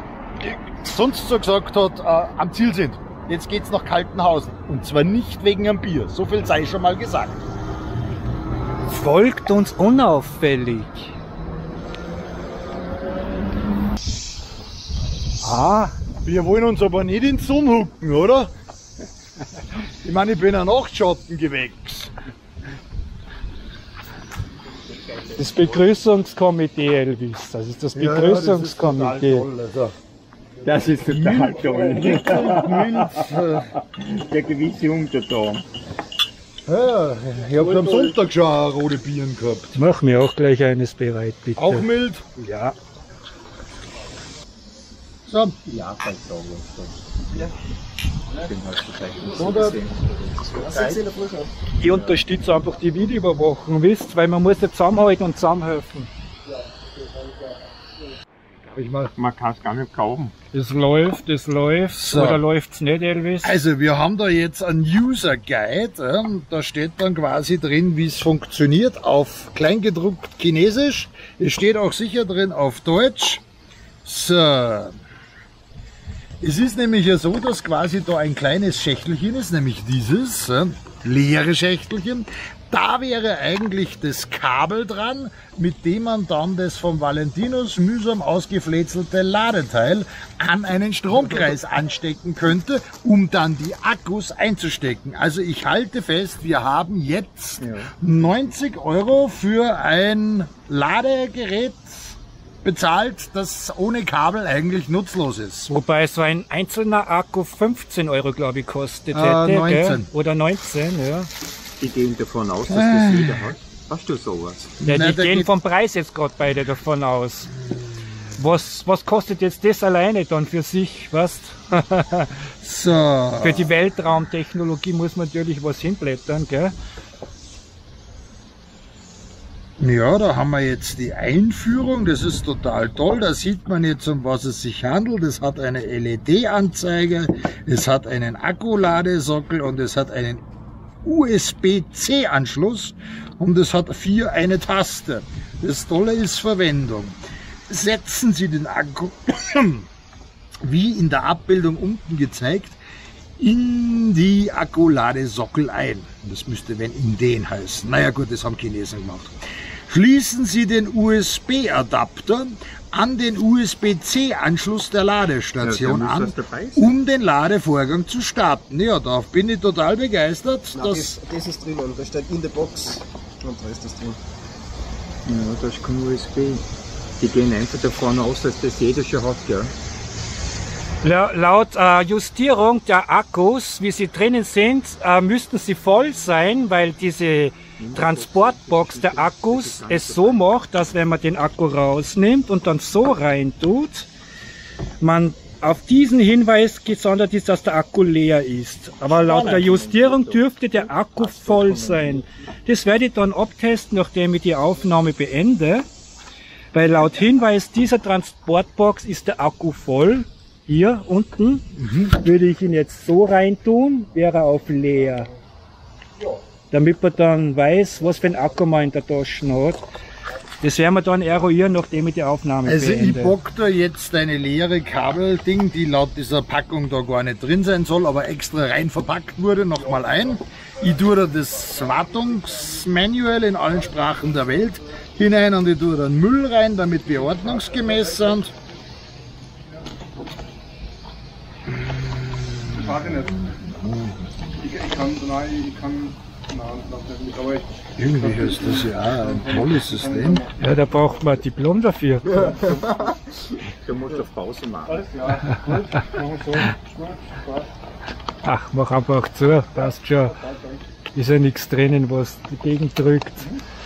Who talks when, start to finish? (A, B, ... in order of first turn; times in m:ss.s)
0:00.4-0:07.4 A
0:08.9-0:11.1 B
0:15.4-0:15.9 B
0:16.2-0:18.5 A
0:20.0-0:22.1 A
0:25.4-0:29.5 B
0:28.0-0:29.9 A
0:30.6-0:35.7 C
0:31.0-0:33.7 A
0:36.7-0:39.8 A
0:39.8-0:42.8 B
0:41.6-0:42.2 A
0:45.3-0:45.6 A
0:45.6-0:47.0 C
0:48.3-0:51.0 C
0:49.3-0:49.8 A
0:50.6-0:51.5 D
0:50.7-0:51.0 A
0:51.8-0:56.1 B
0:51.8-0:52.2 C
0:58.7-0:59.1 A
0:59.2-1:00.4 C
1:00.5-1:03.6 B
1:02.0-1:02.4 A
1:03.4-1:13.4 A
1:14.0-1:15.0 A
1:16.4-1:45.7 A
1:45.7-1:51.3 B
1:49.1-1:50.1 A
1:51.8-1:54.8 C
1:52.7-1:53.5 A
1:54.8-1:55.5 A
1:54.9-1:57.5 B
1:58.4-2:02.4 B
2:02.6-2:03.7 A
2:03.4-2:06.7 B
2:09.8-2:20.4 A
2:21.0-2:27.2 A
2:27.7-2:29.9 A
2:30.6-2:32.8 A
2:33.4-2:39.4 A
2:39.9-2:51.2 A
2:45.6-2:47.0 C
2:50.7-2:54.2 D
2:55.3-2:56.6 C
2:57.2-2:59.7 C
3:01.0-3:14.1 B
3:07.8-3:10.5 C
3:15.0-3:25.8 B
3:19.2-3:22.2 C
3:19.2-3:19.7 A
3:26.7-3:35.3 B
3:31.8-3:32.1 A
3:36.7-3:39.8 B
3:40.6-3:43.4 B
3:42.7-3:58.5 A
3:57.4-3:58.2 E
4:02.7-4:03.5 E
4:03.4-4:04.1 A
4:04.6-4:10.6 E
4:08.0-4:10.4 A
4:10.6-4:12.7 B
4:12.4-4:13.0 E
4:13.7-4:15.0 C
4:14.9-4:17.7 E
4:18.4-4:20.4 B
4:19.8-4:20.8 E
4:21.1-4:23.5 B